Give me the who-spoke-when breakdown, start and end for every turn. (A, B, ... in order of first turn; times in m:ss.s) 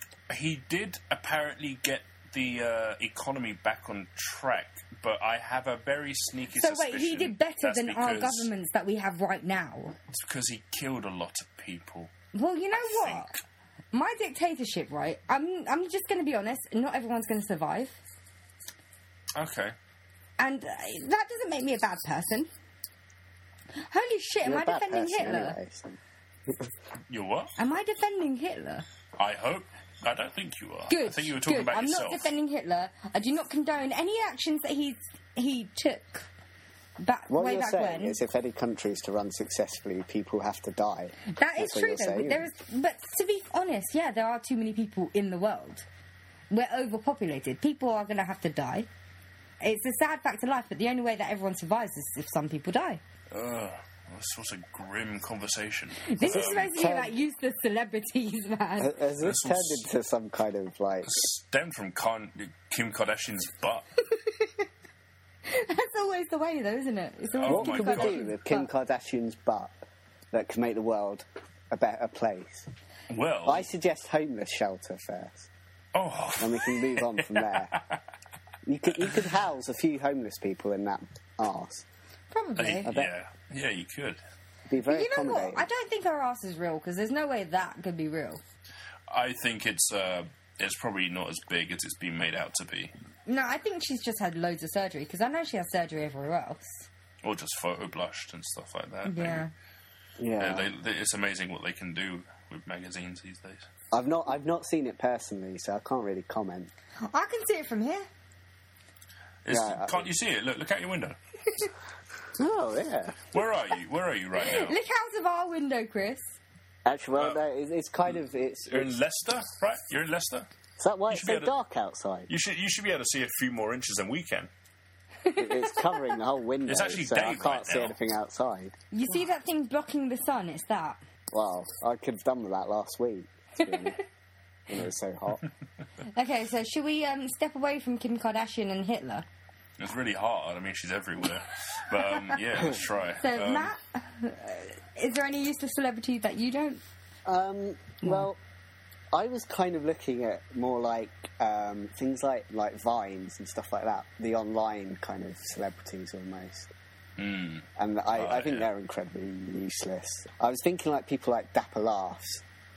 0:00.3-0:08.5 A
0:06.6-0:10.0 B
0:10.1-0:12.1 A
0:12.3-0:13.4 B
0:12.8-0:13.4 A
0:13.9-0:18.0 B
0:19.4-0:19.8 A
0:20.4-0:22.5 B
0:23.8-0:25.6 B
0:24.4-0:26.6 C
0:27.1-0:27.5 A
0:27.6-0:28.8 B
0:29.2-0:32.3 A
0:30.9-0:36.3 B
0:37.0-0:38.2 B
0:37.3-0:42.5 C
0:41.3-0:45.9 B
0:46.5-0:48.9 B
0:49.6-0:53.0 B
0:53.3-0:56.7 A
0:56.1-0:59.0 B
0:56.2-0:57.2 C
0:58.8-1:01.1 C
0:59.2-0:59.9 A
1:01.1-1:03.9 A
1:04.2-1:04.6 B
1:05.5-1:08.7 B
1:07.4-1:08.2 A
1:07.5-1:09.7 C
1:10.3-1:12.7 C
1:13.1-1:13.7 A
1:13.4-1:15.5 C
1:15.9-1:18.0 A
1:16.4-1:17.8 C
1:18.6-1:21.9 C
1:22.3-1:22.9 B
1:22.6-1:24.2 A
1:22.9-1:23.1 C
1:24.7-1:25.7 C
1:24.9-1:28.4 B
1:29.1-1:32.9 A
1:33.3-1:36.9 B
1:37.2-1:39.4 A
1:39.1-1:39.5 B
1:40.2-1:40.7 C
1:40.4-1:43.7 A
1:43.9-1:46.7 C
1:47.1-1:48.1 B
1:49.4-1:51.2 A
1:49.5-1:50.1 C
1:52.4-1:53.2 C
1:53.3-1:54.8 A
1:54.4-1:56.3 B
1:56.9-1:59.0 C
1:58.7-2:00.5 A
2:00.8-2:02.3 C
2:01.1-2:01.5 A
2:02.3-2:04.5 A
2:05.2-2:06.2 B
2:05.4-2:08.8 C
2:06.7-2:08.0 A
2:08.9-2:11.0 B
2:11.3-2:14.0 C
2:14.7-2:15.4 C
2:16.1-2:19.3 B
2:19.8-2:23.7 A
2:23.2-2:26.8 B
2:27.3-2:28.4 C
2:28.0-2:28.3 B
2:29.1-2:36.7 C
2:37.2-2:38.7 A
2:37.8-2:42.4 C